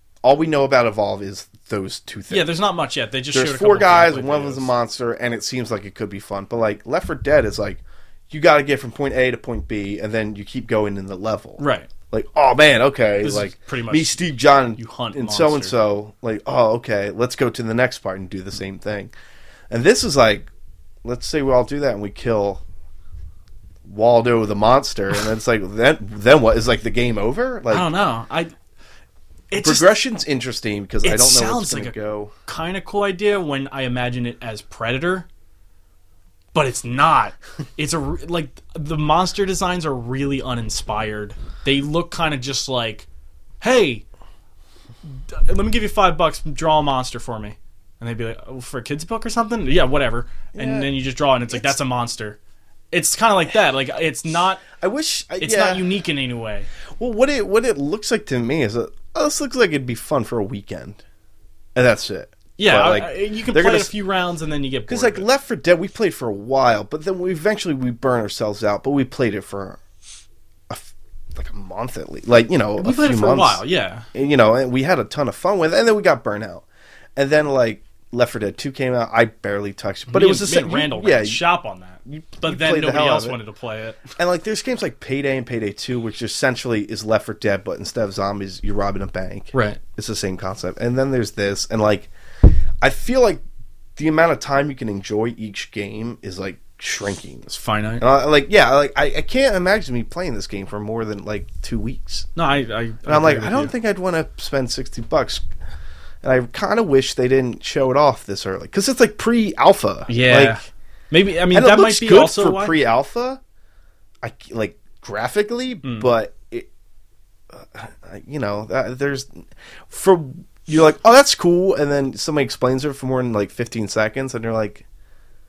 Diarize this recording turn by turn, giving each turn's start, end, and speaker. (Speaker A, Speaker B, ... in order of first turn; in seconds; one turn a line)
Speaker A: 0.2-2.5
Speaker B: 2.3-4.7
Speaker A: 3.3-19.1
Speaker B: 11.6-11.9
Speaker B: 13.2-15.8
Speaker A: 19.7-20.5
Speaker A: 21.0-22.6
Speaker A: 23.9-27.9
Speaker B: 27.7-28.5
Speaker B: 29.5-29.9
Speaker A: 29.6-32.3
Speaker B: 31.0-31.9
Speaker B: 32.5-35.3
Speaker B: 36.5-43.1
Speaker B: 43.6-44.0
Speaker B: 45.1-52.4
Speaker A: 50.5-50.9
Speaker A: 51.5-51.8
Speaker B: 52.9-54.7
Speaker A: 54.8-55.9
Speaker B: 55.4-56.7
Speaker A: 57.0-61.0
Speaker A: 61.8-63.9
Speaker B: 62.6-65.3
Speaker A: 64.9-69.8
Speaker A: 70.7-73.6
Speaker B: 72.8-74.1
Speaker A: 74.1-76.7
Speaker A: 77.2-81.4
Speaker B: 80.1-84.0
Speaker A: 82.1-83.4
Speaker A: 84.2-92.1
Speaker B: 89.5-89.8
Speaker A: 92.8-93.4
Speaker A: 94.0-102.3
Speaker B: 97.5-98.0
Speaker B: 102.3-103.7
Speaker A: 103.1-105.4
Speaker A: 106.2-110.6
Speaker B: 110.1-112.8
Speaker A: 111.5-113.4
Speaker A: 114.2-116.7
Speaker B: 115.8-116.1
Speaker A: 117.5-124.8